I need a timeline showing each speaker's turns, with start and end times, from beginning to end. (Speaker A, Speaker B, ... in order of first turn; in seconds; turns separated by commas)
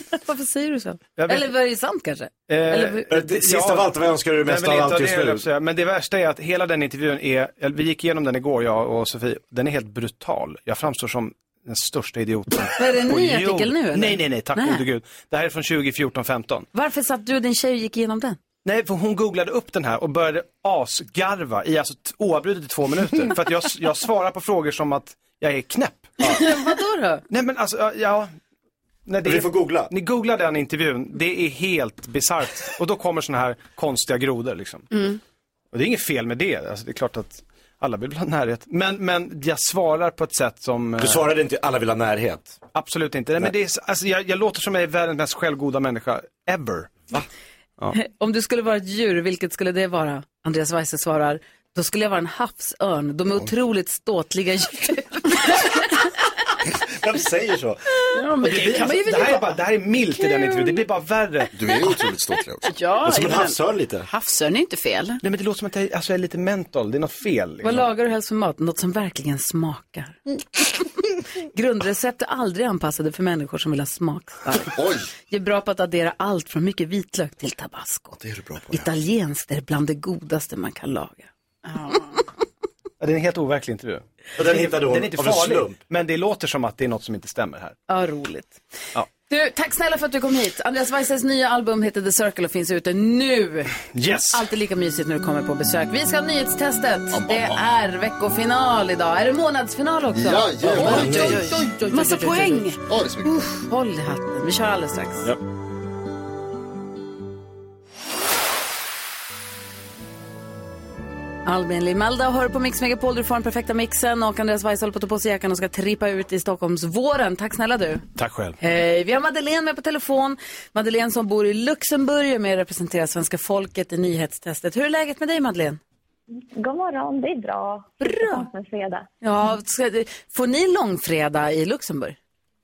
Speaker A: 0.2-3.1, Speaker B: 1.2-1.5, Speaker B: 2.5-16.7, Speaker C: 3.1-5.5, Speaker A: 12.8-14.8, Speaker A: 16.7-18.4, Speaker B: 18.6-26.2, Speaker A: 26.3-27.2, Speaker B: 27.3-28.3, Speaker B: 29.1-34.9, Speaker C: 29.2-29.9, Speaker D: 34.9-35.2, Speaker B: 35.7-41.3, Speaker C: 41.0-42.6, Speaker B: 42.7-47.1, Speaker A: 47.9-55.8, Speaker C: 56.9-57.8, Speaker D: 58.0-59.5, Speaker B: 58.4-61.5, Speaker D: 60.2-60.8, Speaker E: 61.5-62.6, Speaker D: 62.6-65.2, Speaker C: 63.0-64.1, Speaker B: 65.2-67.9, Speaker A: 67.6-70.2, Speaker A: 71.5-74.8, Speaker E: 74.7-75.1, Speaker A: 75.3-78.2, Speaker E: 78.2-78.9, Speaker A: 78.7-81.3, Speaker D: 81.7-82.1, Speaker B: 83.0-87.8, Speaker C: 84.3-85.8, Speaker A: 87.9-88.6, Speaker A: 89.3-93.8, Speaker B: 93.9-94.5, Speaker A: 94.3-105.3, Speaker E: 97.1-97.6, Speaker E: 100.1-101.5, Speaker C: 100.6-101.5, Speaker D: 101.2-102.8, Speaker E: 102.9-103.5, Speaker A: 111.5-118.0, Speaker B: 118.2-118.6, Speaker A: 118.6-125.8, Speaker F: 126.5-129.1, Speaker A: 128.0-128.5, Speaker A: 129.2-132.2